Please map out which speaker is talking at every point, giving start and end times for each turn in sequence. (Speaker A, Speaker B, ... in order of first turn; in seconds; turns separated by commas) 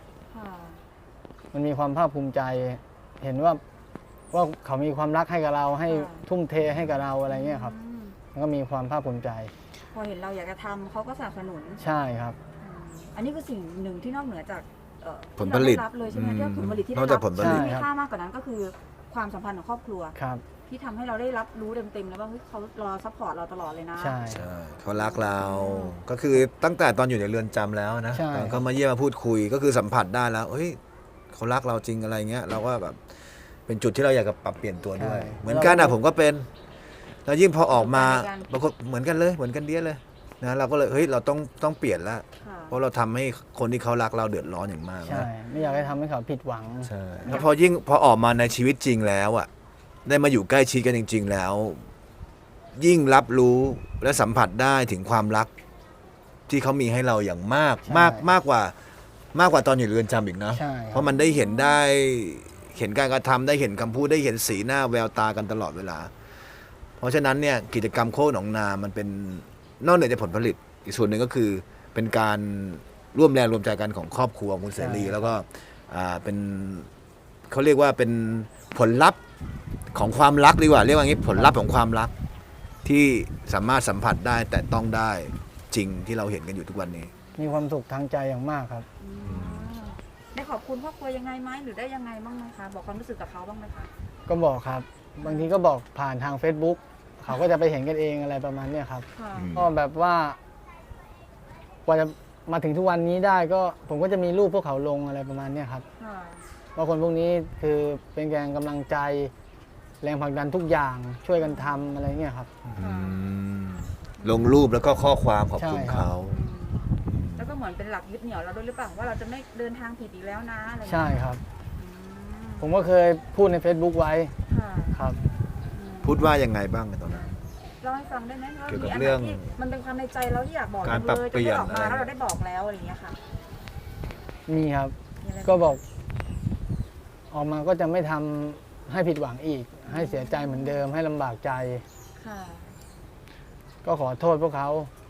Speaker A: 0.3-0.8, Speaker B: 1.5-3.6, Speaker B: 4.3-7.7, Speaker A: 5.9-6.2, Speaker C: 6.7-7.0, Speaker A: 7.3-8.2, Speaker B: 8.3-9.5, Speaker A: 9.9-11.8, Speaker B: 11.8-12.4, Speaker A: 12.6-20.1, Speaker C: 15.4-17.7, Speaker B: 17.4-17.9, Speaker B: 20.1-20.4, Speaker A: 20.7-24.2, Speaker B: 24.0-24.4, Speaker C: 24.3-30.8, Speaker A: 24.9-25.9, Speaker B: 28.1-28.6, Speaker C: 31.3-36.5, Speaker B: 35.0-36.0, Speaker C: 37.2-45.3, Speaker A: 37.7-38.5, Speaker A: 42.4-42.8, Speaker B: 45.0-47.4, Speaker A: 45.5-46.0, Speaker C: 46.9-49.5, Speaker C: 50.0-51.8, Speaker C: 52.7-55.5, Speaker C: 56.5-58.7, Speaker B: 57.9-58.3, Speaker C: 59.3-66.1, Speaker B: 60.5-61.1, Speaker A: 61.0-61.8, Speaker C: 67.0-76.9, Speaker B: 74.7-75.3, Speaker C: 77.5-79.2, Speaker C: 79.9-82.1, Speaker A: 81.2-81.5, Speaker C: 82.8-87.1, Speaker A: 86.9-87.4, Speaker B: 87.4-88.8, Speaker A: 89.0-93.9, Speaker C: 89.2-89.7, Speaker B: 94.3-100.4, Speaker A: 95.2-95.5, Speaker A: 99.1-99.5, Speaker C: 99.3-99.7, Speaker B: 101.8-105.8, Speaker A: 106.0-106.4, Speaker B: 106.8-109.3, Speaker B: 110.0-112.5, Speaker A: 111.4-112.0, Speaker C: 112.6-116.4, Speaker A: 112.8-113.2, Speaker A: 114.2-114.5, Speaker B: 115.6-116.1, Speaker A: 116.2-122.8, Speaker C: 117.1-117.5, Speaker B: 120.8-121.4, Speaker B: 122.6-124.3, Speaker A: 124.5-125.0, Speaker B: 124.9-125.2, Speaker A: 125.7-126.2, Speaker C: 126.0-127.4, Speaker A: 127.1-133.2, Speaker C: 128.7-129.5, Speaker C: 130.8-132.1, Speaker B: 134.5-135.8, Speaker A: 135.2-135.8, Speaker B: 137.3-141.8, Speaker A: 139.9-140.8, Speaker A: 142.2-142.8, Speaker B: 143.8-144.9